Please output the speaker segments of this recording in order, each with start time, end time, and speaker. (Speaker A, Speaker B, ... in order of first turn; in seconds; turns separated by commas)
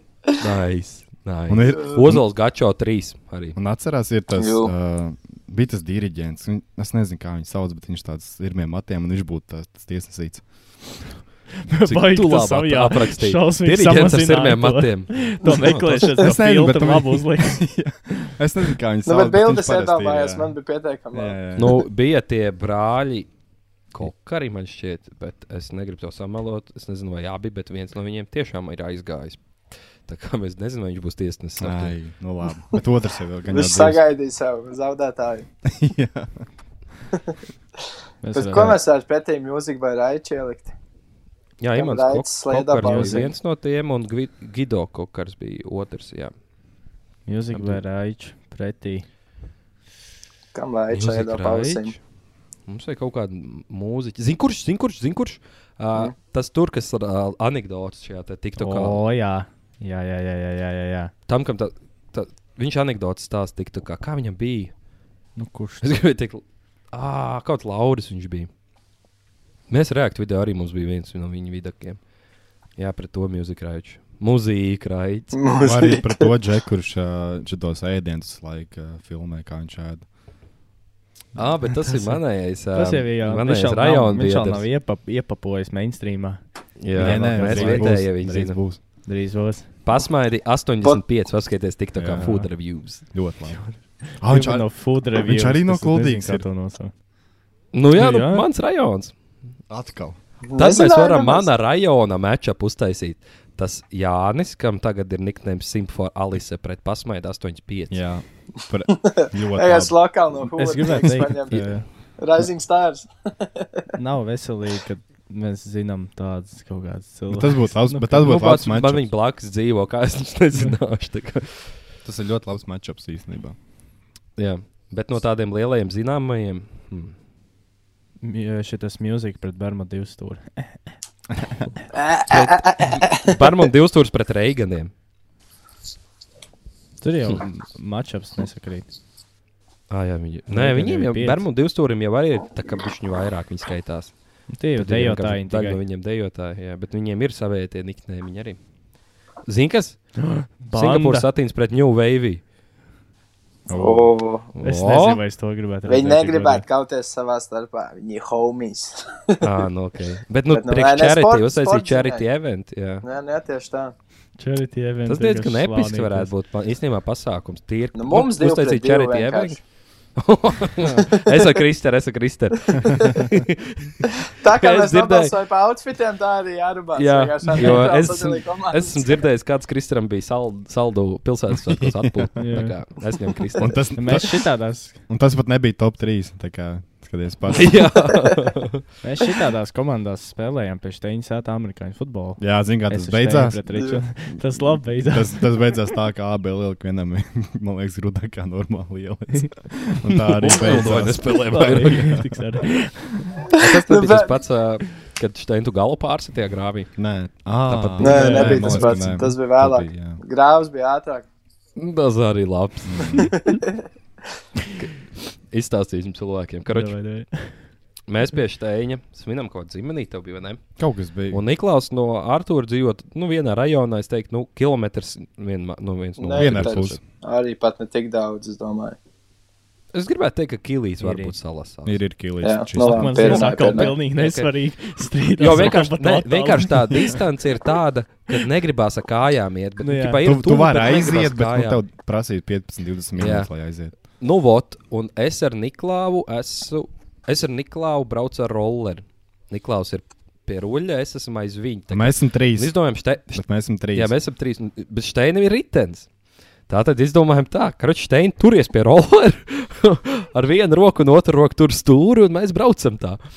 Speaker A: 0.4-3.6, Speaker B: 1.5-2.2, Speaker B: 3.5-10.4, Speaker C: 4.4-4.7, Speaker D: 11.7-18.4, Speaker A: 11.8-16.1, Speaker B: 16.1-20.6, Speaker C: 19.1-21.4, Speaker B: 21.1-21.8, Speaker A: 21.6-23.3, Speaker A: 23.9-29.4, Speaker A: 30.0-31.9, Speaker B: 31.6-34.0, Speaker C: 33.5-35.5, Speaker B: 35.6-36.4, Speaker D: 38.2-38.8, Speaker C: 38.3-40.7, Speaker A: 41.6-46.3, Speaker C: 41.7-43.3, Speaker D: 42.8-43.3, Speaker D: 47.2-49.0, Speaker A: 47.5-47.8, Speaker C: 50.5-51.9, Speaker A: 50.9-52.0, Speaker A: 52.7-59.0, Speaker D: 58.6-61.1, Speaker A: 61.3-64.7, Speaker D: 65.3-66.0, Speaker A: 65.8-68.5, Speaker A: 69.7-72.0, Speaker A: 72.8-75.3, Speaker C: 75.3-76.3, Speaker B: 75.6-80.0, Speaker A: 81.3-84.7, Speaker B: 81.8-82.1, Speaker D: 82.7-86.4, Speaker A: 86.8-88.6, Speaker D: 86.9-88.0, Speaker B: 87.0-88.8, Speaker D: 89.0-89.7, Speaker A: 89.8-93.0, Speaker B: 92.0-92.5, Speaker B: 93.0-93.6, Speaker D: 93.6-96.9, Speaker B: 94.2-96.4, Speaker A: 97.7-99.1, Speaker D: 97.9-98.4, Speaker B: 99.7-100.2, Speaker C: 100.4-101.5, Speaker A: 100.6-108.0, Speaker B: 107.9-110.0, Speaker C: 109.1-113.8, Speaker D: 110.5-111.8, Speaker B: 111.0-111.8, Speaker D: 113.9-118.3, Speaker B: 117.3-119.1, Speaker A: 118.2-121.7, Speaker B: 122.0-123.6, Speaker A: 124.4-127.1, Speaker D: 128.2-130.9, Speaker C: 131.9-133.3, Speaker A: 132.3-134.9, Speaker D: 137.0-138.9, Speaker A: 139.9-144.1, Speaker D: 140.5-141.4, Speaker D: 144.5-145.8, Speaker A: 144.8-148.6, Speaker A: 149.5-150.0, Speaker D: 150.2-151.3, Speaker A: 150.7-152.4, Speaker B: 153.7-154.1, Speaker C: 153.7-154.5, Speaker A: 154.5-155.2, Speaker D: 154.6-156.6, Speaker C: 155.8-159.4, Speaker A: 159.4-163.0, Speaker C: 160.5-162.2, Speaker C: 163.0-163.9, Speaker D: 164.4-166.3, Speaker A: 165.1-169.6, Speaker C: 167.9-169.6, Speaker A: 170.2-174.0, Speaker C: 172.8-173.2, Speaker C: 174.4-179.3, Speaker A: 174.6-175.3, Speaker A: 176.9-183.8, Speaker B: 181.5-182.5, Speaker D: 182.4-182.8, Speaker B: 183.6-184.4, Speaker D: 183.9-185.0, Speaker B: 185.1-187.9, Speaker A: 187.5-188.8, Speaker D: 189.0-195.6, Speaker B: 192.4-193.6, Speaker B: 194.3-202.3, Speaker A: 200.3-202.2, Speaker D: 201.5-203.4, Speaker A: 203.5-206.9, Speaker C: 203.5-204.3, Speaker B: 207.0-210.2, Speaker A: 207.7-208.4, Speaker C: 208.0-211.2, Speaker D: 208.0-208.9, Speaker A: 211.8-213.3, Speaker B: 212.8-213.3, Speaker C: 213.2-213.7, Speaker A: 215.5-216.9, Speaker D: 216.7-217.7, Speaker A: 218.1-220.6, Speaker B: 220.8-221.4, Speaker A: 221.3-227.0, Speaker C: 226.2-229.0, Speaker B: 226.3-227.0, Speaker A: 229.9-232.0, Speaker D: 231.0-231.3, Speaker B: 231.8-233.5, Speaker C: 232.4-233.9, Speaker D: 232.8-237.2, Speaker A: 233.5-234.5, Speaker A: 235.4-241.8, Speaker D: 239.8-240.2, Speaker B: 240.2-243.9, Speaker A: 243.2-243.5, Speaker A: 244.1-256.1, Speaker B: 251.9-254.1, Speaker A: 256.7-263.2